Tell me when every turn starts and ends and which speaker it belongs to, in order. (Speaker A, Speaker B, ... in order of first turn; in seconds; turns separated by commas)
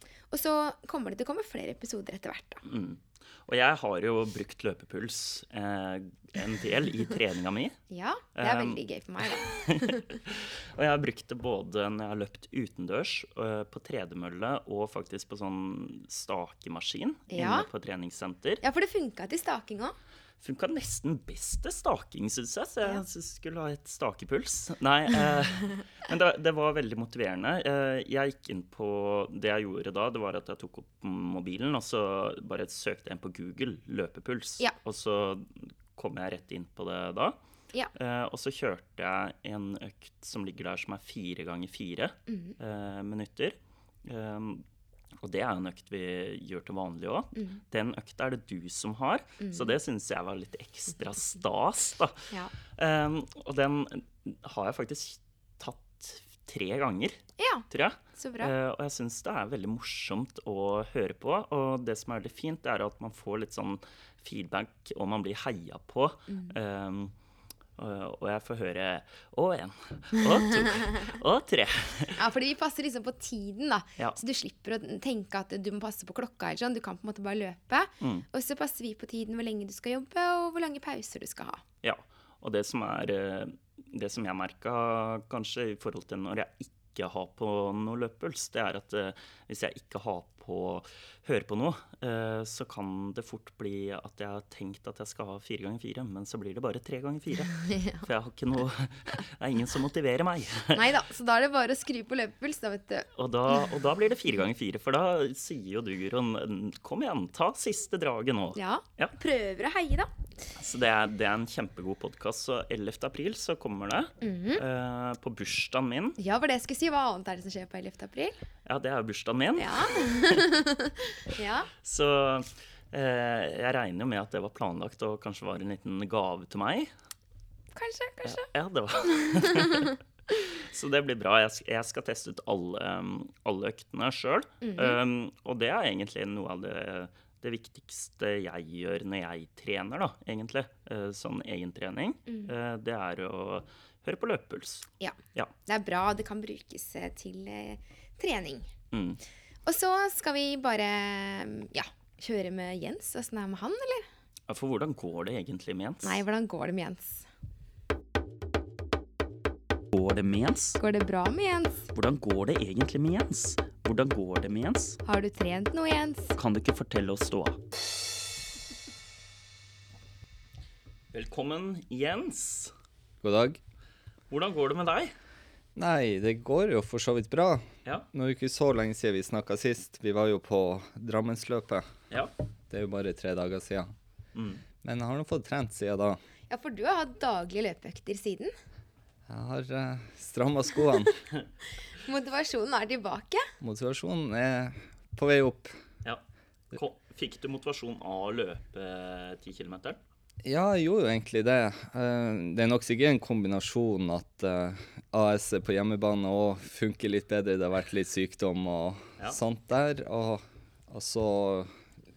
Speaker A: 0.3-2.6, Speaker B: 2.6-7.8, Speaker A: 7.9-10.1, Speaker B: 8.3-18.6, Speaker A: 17.3-17.7, Speaker A: 18.6-19.9, Speaker B: 20.4-37.4, Speaker B: 37.9-44.6, Speaker A: 42.3-42.5, Speaker B: 45.2-57.2, Speaker A: 49.4-49.7, Speaker A: 57.4-58.5, Speaker B: 57.7-67.1, Speaker B: 67.8-72.2, Speaker A: 72.1-81.6, Speaker B: 81.8-100.9, Speaker A: 97.5-98.0, Speaker A: 100.7-103.1, Speaker B: 103.1-109.1, Speaker A: 108.5-110.1, Speaker B: 110.5-116.2, Speaker A: 114.2-114.6, Speaker A: 116.2-118.3, Speaker B: 118.7-120.5, Speaker A: 119.6-121.7, Speaker B: 121.8-126.9, Speaker A: 127.8-128.5, Speaker B: 128.2-145.5, Speaker A: 129.1-129.9, Speaker A: 134.6-135.0, Speaker A: 145.0-148.7, Speaker B: 148.9-149.2, Speaker A: 149.7-154.1, Speaker B: 154.5-156.2, Speaker A: 156.0-157.3, Speaker B: 159.9-160.8, Speaker A: 160.8-161.8, Speaker B: 161.9-165.0, Speaker A: 165.0-166.4, Speaker B: 166.4-167.6, Speaker B: 171.1-172.7, Speaker C: 173.2-173.6, Speaker B: 174.3-175.1, Speaker C: 175.8-181.9, Speaker C: 182.7-183.9, Speaker B: 184.3-184.6, Speaker C: 184.8-186.2, Speaker A: 186.5-188.5, Speaker C: 189.3-191.2, Speaker A: 191.9-193.4, Speaker C: 193.6-195.7, Speaker B: 196.0-200.0, Speaker C: 200.4-211.7